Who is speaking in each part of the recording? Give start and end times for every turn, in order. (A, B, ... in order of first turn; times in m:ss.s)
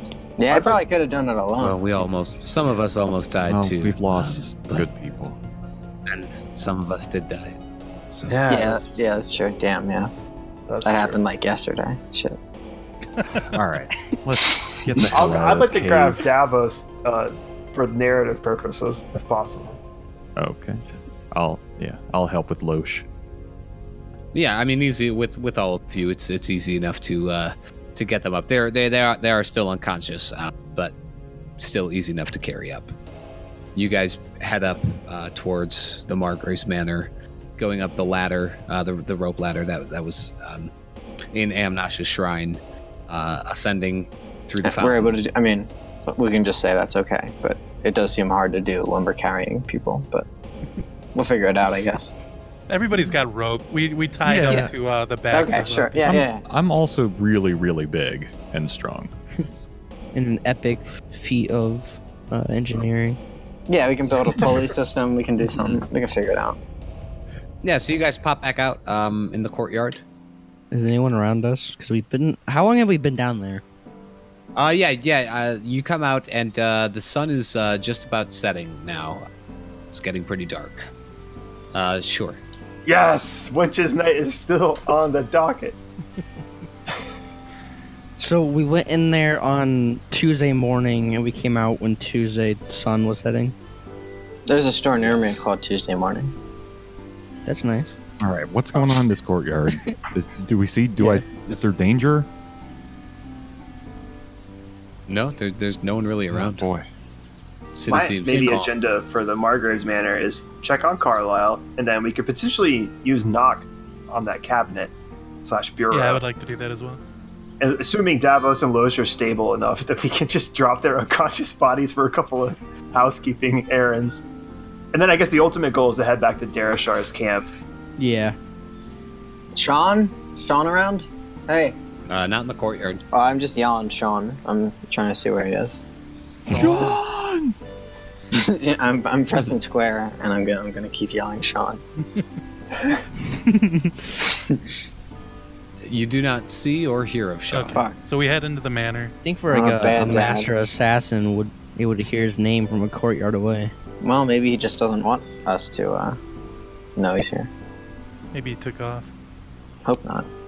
0:00.4-0:01.8 A
0:01.6-0:04.9 B
0:03.4-0:05.4 C
0:06.1-0:07.6 B
0:08.1-0:08.4 B
0:08.3-0:09.2 D
0:08.5-0:10.1 A
0:10.7-0:11.2 D
0:10.8-0:12.4 A
0:13.4-0:16.2 C
0:15.1-0:19.8 D
0:20.4-0:23.0 C
0:24.3-0:30.9 B
0:31.6-0:32.9 B
0:33.8-0:40.7 B
0:41.3-0:45.1 B
0:44.6-0:50.3 A
0:51.1-0:52.1 A
0:52.7-0:56.2 E
0:54.2-0:54.7 C
0:55.3-0:56.4 A
0:56.0-0:59.1 C
1:00.1-1:03.2 F
1:03.7-1:06.6 A
1:07.6-1:10.0 B
1:10.7-1:13.6 F
1:14.6-1:19.2 B
1:19.9-1:20.9 B
1:21.7-1:22.4 B
1:22.8-1:25.8 D
1:28.2-1:33.5 F
1:34.4-1:36.3 A
1:35.0-1:35.4 B
1:37.4-1:38.0 F
1:38.2-1:42.3 C
1:45.1-1:46.7 B
1:46.3-1:46.9 C
1:47.7-1:48.7 B
1:47.8-1:54.9 D
1:55.4-1:56.2 D
1:55.9-1:57.0 E
1:57.6-2:04.2 D
2:04.9-2:07.5 D
2:08.0-2:08.4 F
2:09.5-2:11.8 A
2:12.1-2:13.0 B
2:13.1-2:15.8 A
2:16.5-2:17.5 C
2:16.5-2:17.0 E
2:18.3-2:21.8 A
2:23.3-2:23.9 E
2:24.4-2:24.6 A
2:25.8-2:27.8 B
2:27.5-2:29.1 E
2:27.7-2:28.0 A
2:29.2-2:33.7 F
2:29.5-2:30.5 A
2:34.0-2:36.2 A
2:37.0-2:37.5 A
2:38.3-2:39.1 E
2:39.8-2:40.3 A